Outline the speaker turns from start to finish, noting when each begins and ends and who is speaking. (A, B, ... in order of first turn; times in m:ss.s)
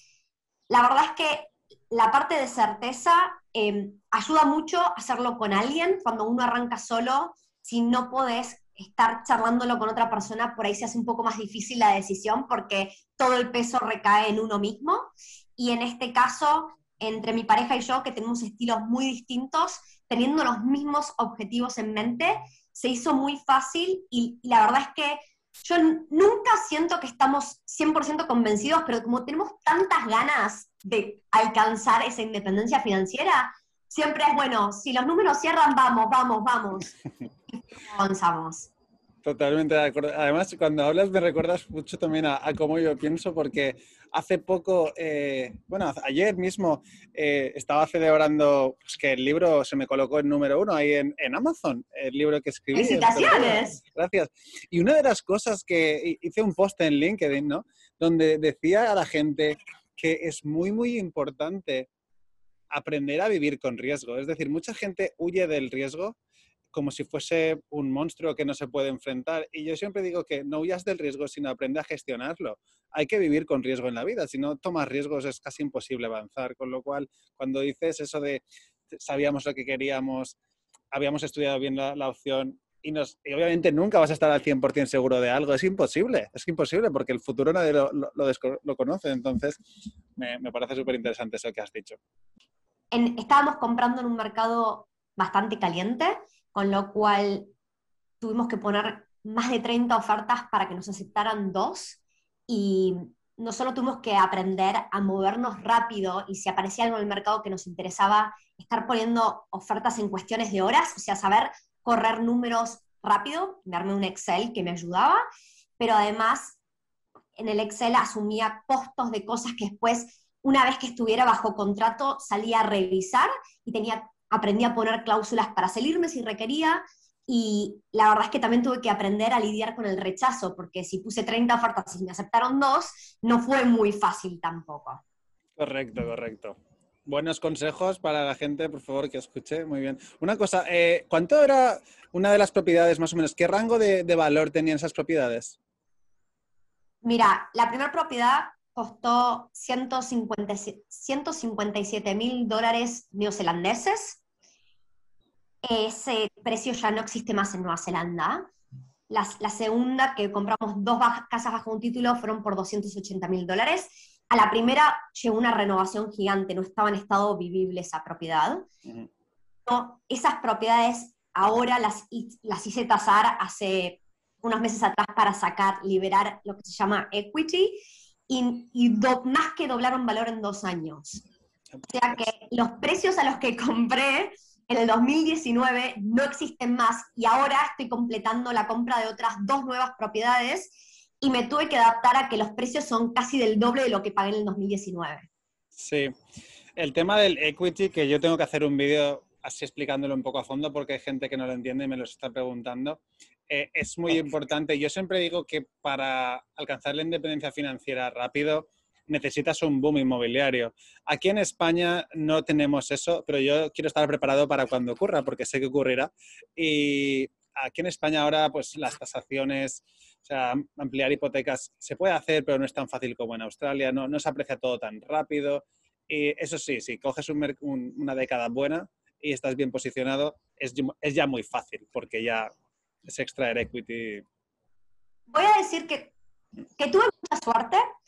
0:00.7-0:36.9 A
0:37.5-0:38.7 A
0:39.2-1:01.9 B
0:52.7-0:53.8 A
1:02.7-1:06.2 B
1:06.7-1:20.4 B
1:20.9-1:29.6 B
1:30.2-1:32.0 B
1:32.9-1:37.5 A
1:38.2-1:55.2 A
1:55.8-1:56.6 A
1:57.4-2:15.0 A
2:15.6-2:25.6 B
2:27.0-2:34.2 A
2:35.6-2:38.5 A
2:39.1-2:48.7 A
2:49.7-3:01.2 A
3:01.8-3:02.2 B
3:01.9-3:15.3 A
3:15.8-3:16.1 B
3:16.8-3:52.5 B
3:53.0-3:54.2 B
3:55.3-3:56.1 A
3:56.8-3:57.8 A